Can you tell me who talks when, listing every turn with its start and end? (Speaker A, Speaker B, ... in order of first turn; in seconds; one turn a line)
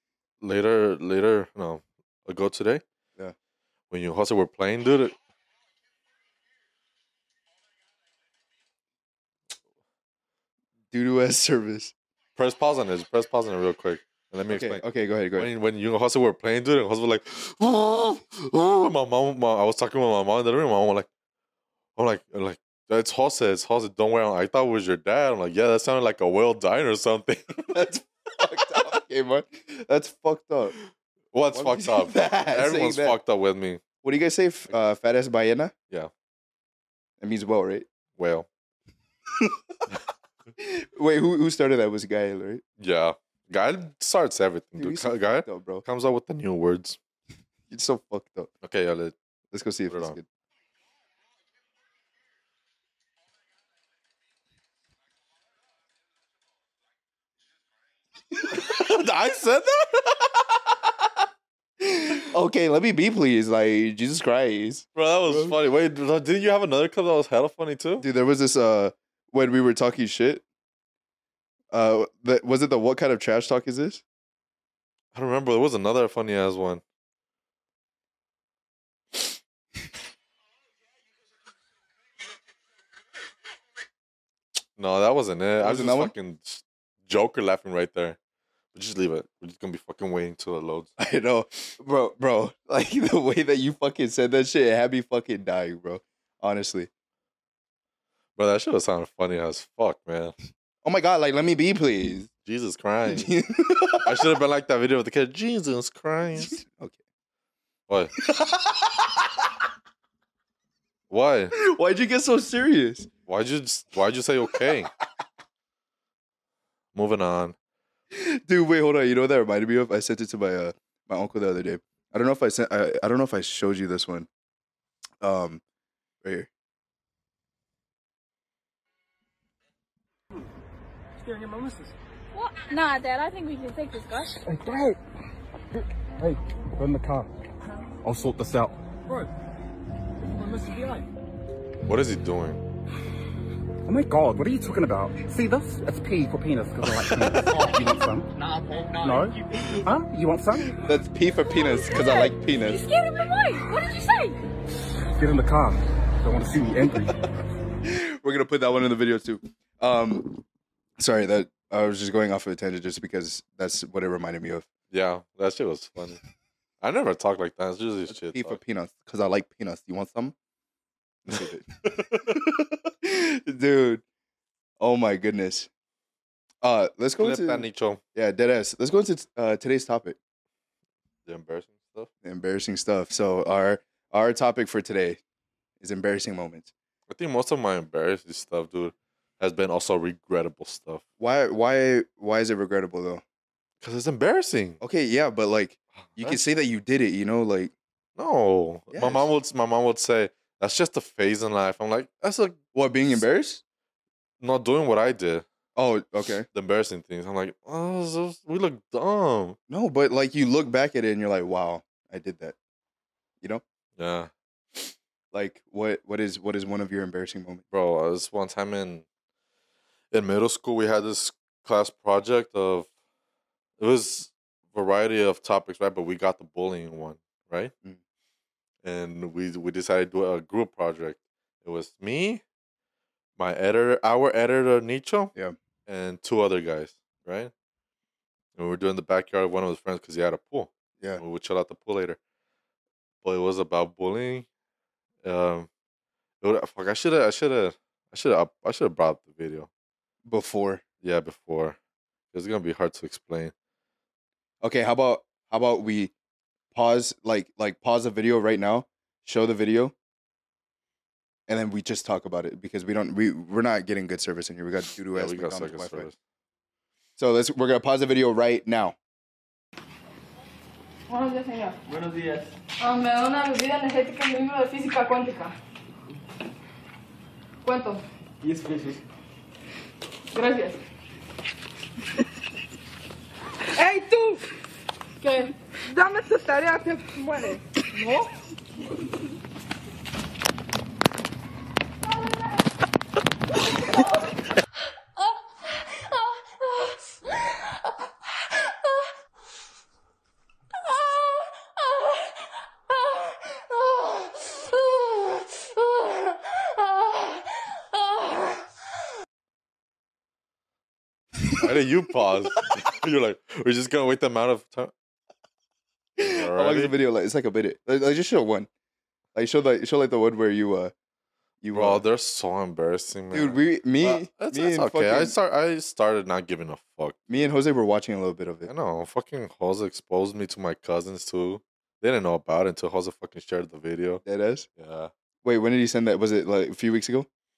Speaker A: 0.4-2.8
Speaker A: 3.9-5.2
Speaker B: 10.9-11.9
Speaker A: 12.4-14.8
Speaker B: 14.5-15.5
Speaker A: 15.4-21.1
Speaker A: 22.0-27.8
Speaker B: 27.7-30.8
Speaker A: 31.3-33.8
Speaker B: 31.5-33.2
Speaker B: 34.0-35.7
Speaker B: 37.2-37.9
Speaker A: 38.2-38.5
Speaker B: 40.6-42.6
Speaker A: 42.8-47.0
Speaker B: 44.8-45.9
Speaker B: 47.7-48.5
Speaker A: 48.6-49.1
Speaker B: 49.5-50.2
Speaker A: 49.9-50.2
Speaker A: 58.5-60.5
Speaker B: 61.8-65.5
Speaker A: 65.0-68.1
Speaker B: 68.0-70.4
Speaker B: 71.7-74.0
Speaker A: 75.1-76.8
Speaker A: 84.8-88.2
Speaker B: 85.6-86.1
Speaker A: 88.7-90.9
Speaker B: 91.0-96.9
Speaker A: 98.4-100.3
Speaker B: 100.8-102.3
Speaker A: 102.5-103.3
Speaker B: 103.1-104.3
Speaker A: 104.0-106.6
Speaker B: 106.4-107.0
Speaker A: 107.9-108.1
Speaker B: 108.2-109.2
Speaker A: 111.1-111.5
Speaker B: 111.5-113.1
Speaker A: 113.3-114.9
Speaker A: 116.9-117.6
Speaker B: 118.1-124.3
Speaker B: 125.2-125.6
Speaker B: 126.2-126.5
Speaker C: 131.2-131.9
Speaker D: 132.3-134.4
Speaker C: 134.4-135.0
Speaker C: 135.7-137.3
Speaker C: 138.0-139.3
Speaker C: 140.2-141.1
Speaker A: 141.9-142.6
Speaker C: 143.9-148.3
Speaker A: 147.0-147.4
Speaker E: 147.5-149.7
Speaker C: 149.0-150.8
Speaker B: 150.8-152.8
Speaker D: 151.5-154.4
Speaker C: 155.2-157.2
Speaker B: 157.8-160.4
Speaker B: 161.0-164.7
Speaker A: 164.9-166.2
Speaker A: 166.8-168.6
Speaker B: 168.1-170.3
Speaker B: 171.3-174.0
Speaker B: 174.8-175.7
Speaker B: 176.6-180.2
Speaker A: 177.2-178.0
Speaker A: 181.3-182.1
Speaker B: 182.2-185.2
Speaker B: 185.8-186.7
Speaker A: 187.1-191.0
Speaker B: 191.2-193.2
Speaker A: 193.8-194.8
Speaker B: 194.8-197.7
Speaker A: 196.0-196.5
Speaker A: 198.2-202.6
Speaker B: 198.9-199.3
Speaker B: 202.7-203.6
Speaker A: 204.4-205.4
Speaker B: 205.8-206.5
Speaker A: 206.5-209.6
Speaker B: 209.7-212.6
Speaker A: 214.0-214.3
Speaker B: 215.3-217.6
Speaker A: 217.7-219.1
Speaker A: 220.1-222.9
Speaker A: 223.8-227.7
Speaker A: 228.8-232.4
Speaker A: 233.4-235.3
Speaker A: 235.9-237.5
Speaker A: 238.6-242.2
Speaker A: 243.2-244.5
Speaker A: 245.2-245.7
Speaker A: 246.4-249.7
Speaker B: 250.2-250.8
Speaker A: 251.0-251.8
Speaker A: 252.3-253.5
Speaker B: 254.6-256.1
Speaker B: 256.7-259.9
Speaker B: 261.5-266.1
Speaker A: 265.1-266.1
Speaker B: 267.2-269.0
Speaker F: 271.1-271.8
Speaker E: 271.9-272.5
Speaker F: 272.8-275.5
Speaker F: 277.6-278.0
Speaker E: 278.4-279.0
Speaker F: 280.3-280.8
Speaker F: 283.8-284.5
Speaker F: 285.2-288.4
Speaker D: 304.9-305.4
Speaker A: 311.6-314.9
Speaker B: 316.2-318.7
Speaker A: 316.2-316.9
Speaker B: 319.4-320.9
Speaker B: 321.6-322.1
Speaker A: 321.7-327.2
Speaker B: 323.3-325.3
Speaker B: 327.3-328.7
Speaker A: 328.7-334.2
Speaker B: 334.2-334.7
Speaker A: 334.8-335.1
Speaker B: 335.4-337.3